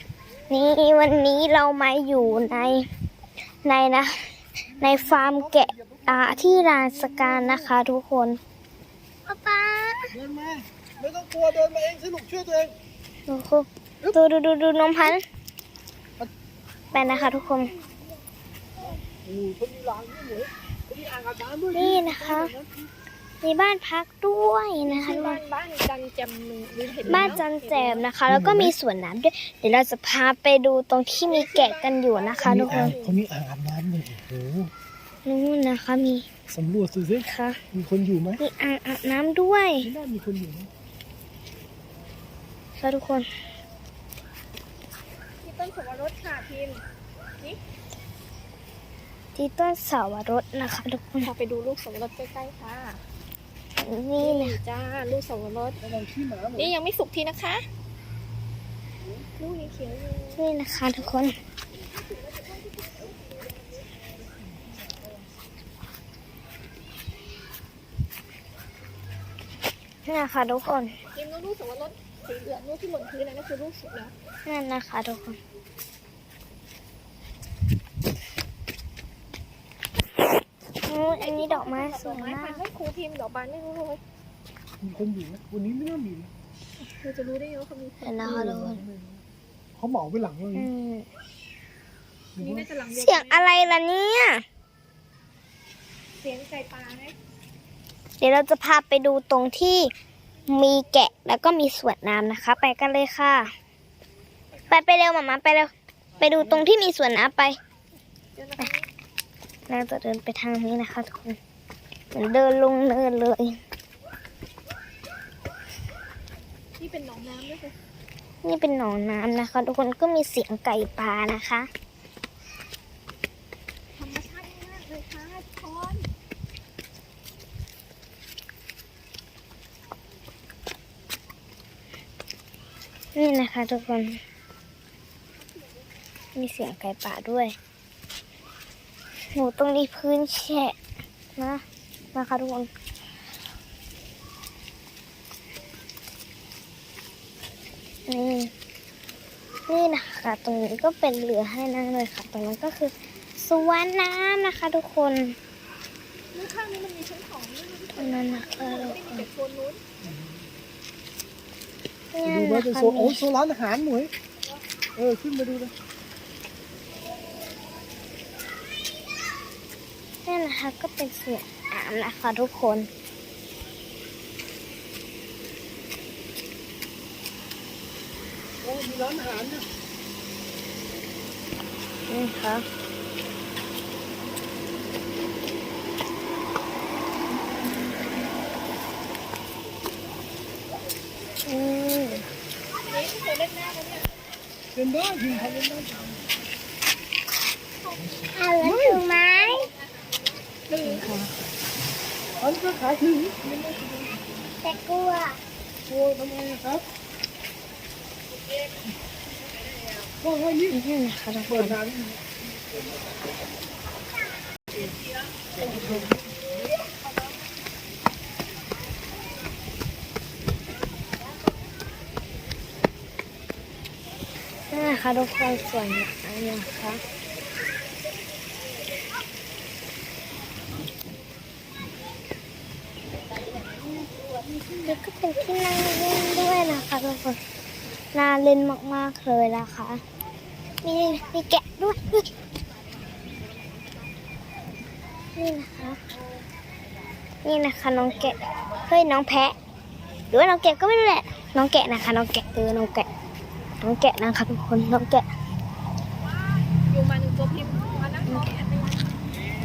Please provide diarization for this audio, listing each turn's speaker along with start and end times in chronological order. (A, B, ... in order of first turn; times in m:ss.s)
0:00.5-0:02.8 A
0:03.6-0:04.1 A
0:04.8-0:07.8 B
0:04.8-0:08.4 A
0:09.3-0:10.1 A
0:10.1-0:12.8 B
0:13.3-0:15.2 A
0:16.9-0:17.7 A
0:19.2-0:22.9 B
0:21.7-0:22.5 A
0:23.4-0:25.4 A
0:24.8-0:28.0 C
0:27.1-0:33.0 A
0:27.1-0:27.4 B
0:28.3-0:28.7 B
0:31.2-0:33.2 C
0:32.4-0:34.7 B
0:35.2-0:36.3 A
0:36.5-0:38.4 B
0:37.2-0:37.6 A
0:38.4-0:39.9 A
0:39.8-0:40.7 B
0:42.8-0:43.3 A
0:45.4-0:46.8 C
0:49.4-0:51.3 A
0:51.2-0:53.0 C
0:53.8-0:54.6 A
0:54.2-0:55.8 C
0:55.8-0:56.7 B
0:56.6-0:57.7 C
0:59.4-1:00.4 C
1:00.4-1:01.4 A
1:10.1-1:10.9 A
1:11.1-1:14.1 C
1:14.5-1:15.4 A
1:20.8-1:22.6 A
1:21.0-1:24.0 C
1:24.8-1:26.3 B
1:26.8-1:28.4 C
1:28.0-1:28.8 A
1:28.2-1:29.2 B
1:29.8-1:30.7 B
1:30.5-1:31.1 A
1:32.4-1:32.7 B
1:32.4-1:33.6 C
1:32.9-1:34.4 A
1:36.2-1:37.2 C
1:38.2-1:39.9 A
1:40.5-1:43.5 A
1:44.7-1:47.6 A
1:48.4-1:48.9 C
1:49.7-1:51.4 A
1:52.1-1:53.6 A
1:56.8-1:57.7 C
1:58.4-2:01.7 A
2:04.0-2:06.1 C
2:13.2-2:14.2 A
2:16.4-2:17.6 A
2:19.3-2:20.7 A
2:21.4-2:21.6 A
2:22.1-2:22.7 A
2:28.1-2:28.5 A
2:29.7-2:35.4 A
2:36.3-2:39.8 C
2:38.0-2:39.3 A
2:40.0-2:40.4 B
2:42.1-2:43.3 A
2:42.2-2:44.1 B
2:45.0-2:45.7 B
2:50.2-2:52.9 A
2:58.6-2:59.7 B
3:02.1-3:02.6 A
3:11.5-3:12.2 A
3:12.9-3:14.1 C
3:14.7-3:16.1 B
3:18.3-3:19.7 A
3:18.6-3:20.1 C
3:20.7-3:21.1 C
3:20.8-3:21.4 A
3:22.4-3:24.1 B
3:24.6-3:25.4 A
3:25.9-3:26.8 B
3:30.2-3:30.8 B
3:30.7-3:31.8 A
3:31.5-3:32.3 B
3:35.6-3:36.2 B
3:35.6-3:36.1 A
3:44.7-3:47.0 A
3:54.8-3:57.4 A
3:58.1-4:00.0 A
4:00.8-4:02.3 A
4:05.4-4:06.0 A
4:07.4-4:08.4 A
4:08.9-4:09.5 A
4:10.3-4:13.1 A
4:13.8-4:15.2 A
4:16.9-4:19.0 C